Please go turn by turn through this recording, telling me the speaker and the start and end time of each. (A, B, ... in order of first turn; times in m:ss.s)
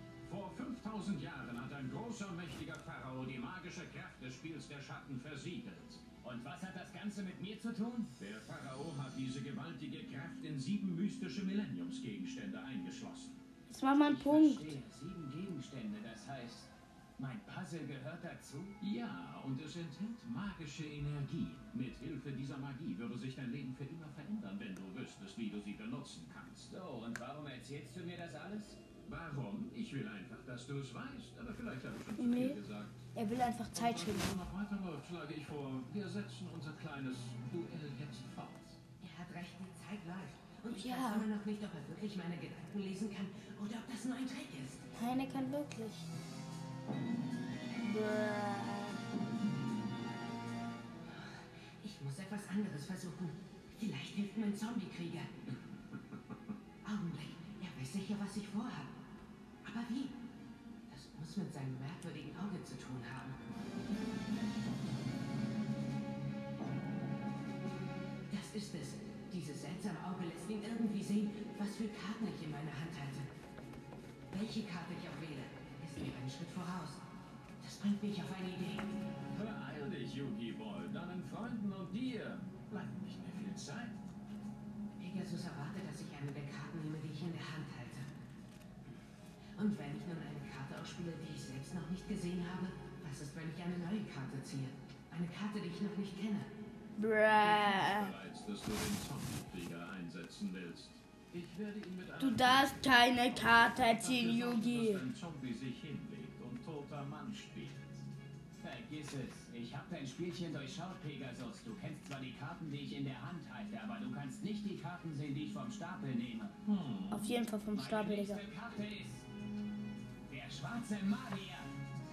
0:00.2-0:06.0 A
0:06.2-0:08.1 B
0:08.2-0:13.4 A
0:13.7-0:14.8 C
0:14.0-0:18.8 B
0:18.8-0:26.7 A
0:26.7-0:28.8 B
0:29.0-0:33.1 A
0:32.2-0:32.6 C
0:33.2-0:34.4 C
0:33.7-0:38.8 A
0:39.0-0:44.8 D
0:40.7-0:41.3 C
0:45.0-0:46.1 C
0:47.7-0:49.0 C
0:51.0-0:55.3 D
0:56.8-0:58.9 D
0:59.6-1:00.2 D
1:00.9-1:03.4 D
1:08.3-1:13.3 D
1:14.3-1:17.0 D
1:17.6-1:19.0 D
1:19.3-1:24.0 A
1:25.0-1:28.1 D
1:29.6-1:36.5 D
1:37.0-1:38.1 C
1:37.4-1:48.1 A
1:42.2-1:45.0 C
1:48.6-1:56.5 B
1:56.6-1:57.4 A
1:57.1-1:58.4 C
1:57.7-1:59.2 B
2:00.3-2:01.7 B